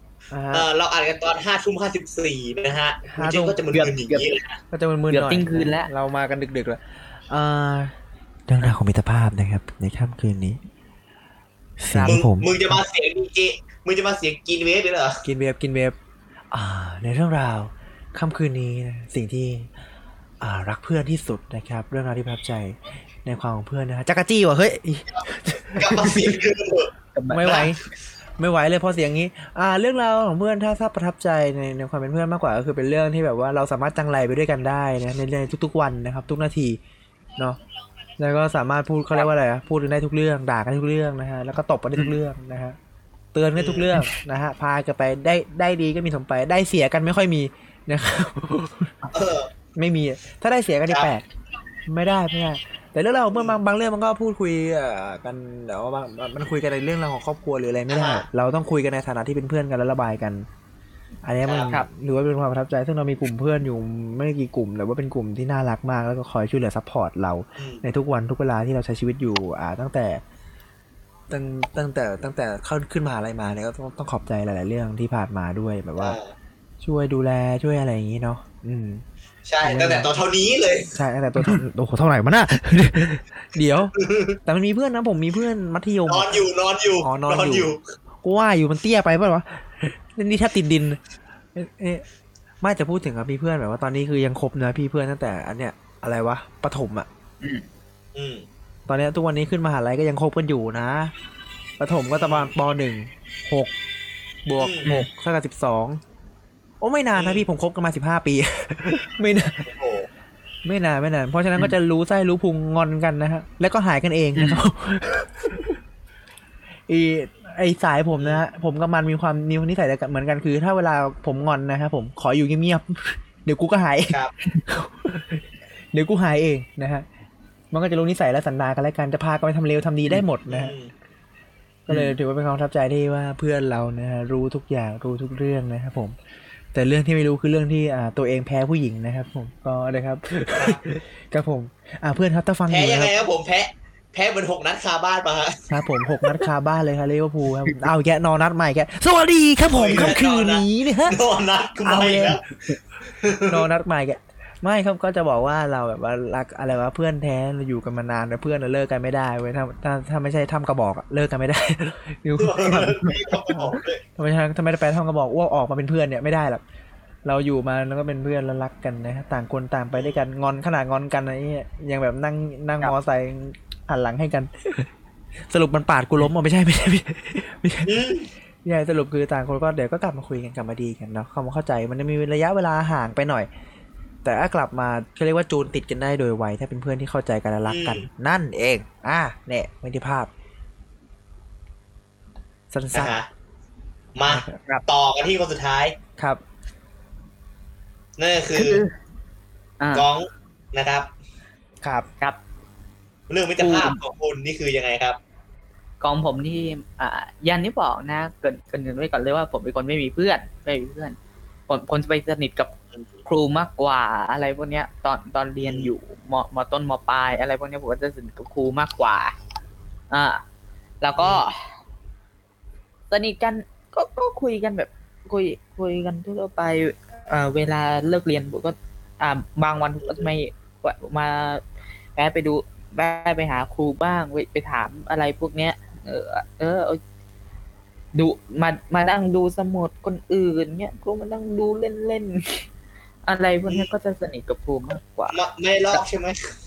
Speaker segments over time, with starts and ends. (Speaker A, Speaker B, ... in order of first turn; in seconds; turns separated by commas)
Speaker A: 0.3-0.7, Speaker B: 0.5-4.6, Speaker A: 3.1-3.6, Speaker C: 3.7-4.3, Speaker A: 4.7-7.9, Speaker C: 5.1-5.9, Speaker A: 8.5-10.6, Speaker A: 11.8-12.8, Speaker B: 12.0-15.2, Speaker A: 15.2-15.9, Speaker A: 16.5-19.7, Speaker A: 20.4-26.2, Speaker B: 25.1-27.7, Speaker C: 27.1-27.7, Speaker A: 27.3-27.8, Speaker A: 28.4-36.8, Speaker A: 38.2-42.8, Speaker A: 43.3-49.0, Speaker B: 43.6-44.0, Speaker B: 49.1-49.5, Speaker A: 49.7-51.2, Speaker A: 51.9-60.5, Speaker B: 53.3-53.6, Speaker B: 57.9-58.2, Speaker A: 61.2-70.2, Speaker B: 61.4-61.7, Speaker B: 67.6-67.9, Speaker A: 71.3-76.2, Speaker B: 76.0-76.3, Speaker A: 76.8-79.0, Speaker B: 79.5-81.6, Speaker A: 79.6-80.1, Speaker A: 80.9-86.4, Speaker B: 84.0-84.4, Speaker B: 86.1-87.8, Speaker A: 87.0-91.0, Speaker A: 91.5-92.0, Speaker A: 92.6-97.1, Speaker B: 98.1-98.5, Speaker A: 98.9-101.1, Speaker A: 101.8-103.7, Speaker B: 102.1-102.5, Speaker A: 104.5-106.0, Speaker B: 104.6-105.0, Speaker A: 106.8-109.7, Speaker B: 107.1-107.5, Speaker B: 109.6-110.1, Speaker A: 110.6-115.8, Speaker C: 114.3-114.6, Speaker A: 116.9-127.0, Speaker B: 118.2-118.4, Speaker A: 127.7-130.7, Speaker B: 130.5-130.9, Speaker A: 131.9-136.2, Speaker A: 136.7-143.1, Speaker B: 140.5-140.9, Speaker B: 142.7-145.7, Speaker A: 145.7-151.2, Speaker B: 149.7-152.4, Speaker A: 151.8-152.4, Speaker B: 153.1-153.6, Speaker A: 153.5-166.6, Speaker B: 162.4-164.0, Speaker A: 167.2-174.9, Speaker B: 169.9-170.2, Speaker A: 175.5-178.0, Speaker B: 177.8-178.3, Speaker A: 178.6-183.5, Speaker A: 184.2-190.3, Speaker B: 187.7-188.1, Speaker A: 192.7-193.2, Speaker B: 192.9-193.3, Speaker B: 194.2-195.9, Speaker A: 194.3-194.6, Speaker B: 198.2-198.8, Speaker C: 198.5-198.9, Speaker C: 199.8-200.1, Speaker B: 199.9-201.1, Speaker A: 201.8-202.1, Speaker B: 203.3-205.2, Speaker C: 203.6-204.0, Speaker C: 206.0-211.2, Speaker C: 211.7-212.7, Speaker C: 213.2-219.3, Speaker B: 215.6-215.9, Speaker C: 220.1-220.4, Speaker C: 221.0-221.7, Speaker B: 221.2-221.4, Speaker C: 223.1-231.6, Speaker C: 232.2-237.0, Speaker C: 238.1-242.6, Speaker C: 243.2-245.4, Speaker B: 245.3-246.4